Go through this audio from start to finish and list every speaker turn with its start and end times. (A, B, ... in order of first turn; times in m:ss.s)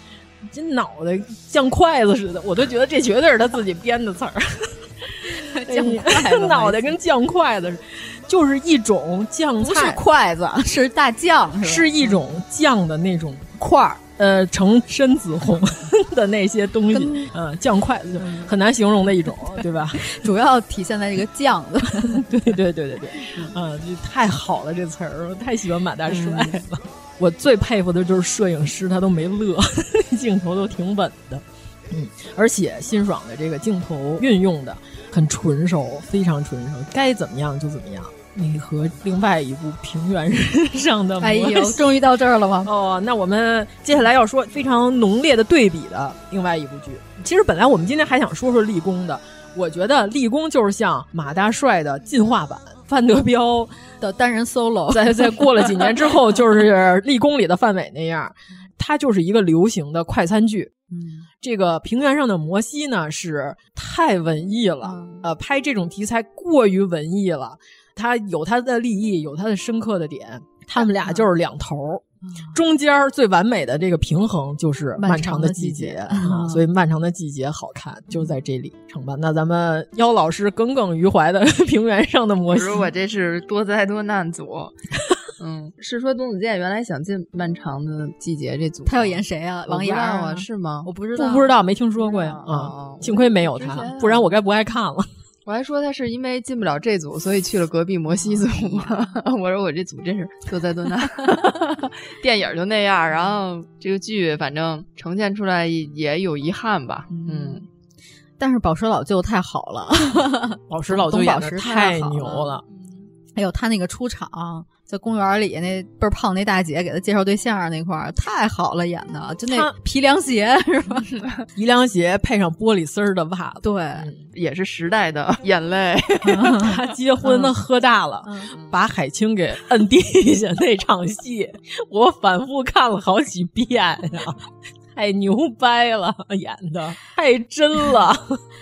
0:00.5-0:10.0 A
0:05.3-0:07.0 B
0:09.6-0:12.2 B
0:11.6-0:20.2 A
0:16.9-0:17.3 B
0:18.2-0:18.5 B
0:20.0-0:22.3 B
0:22.1-0:42.0 A
0:26.1-0:26.6 B
0:41.2-0:42.7 B
0:42.6-0:53.7 A
0:54.0-0:56.0 B
0:54.9-1:00.7 A
1:00.9-1:01.2 B
1:01.4-1:22.9 A
1:04.8-1:05.2 B
1:12.2-1:12.6 B
1:15.0-1:16.6 B
1:22.5-1:24.8 C
1:25.4-1:30.9 C
1:28.8-1:32.5 B
1:31.2-1:35.1 A
1:32.4-1:34.3 C
1:35.5-1:47.6 C
1:38.2-1:39.1 B
1:47.1-1:47.6 B
1:48.4-1:52.5 B
1:50.7-1:52.6 A
1:53.4-2:01.1 B
1:59.5-1:59.7 A
2:01.6-2:04.2 A
2:03.6-2:04.1 B
2:04.3-2:06.8 C
2:06.2-2:07.5 B
2:06.6-2:14.4 A
2:08.2-2:08.6 B
2:15.0-2:18.4 A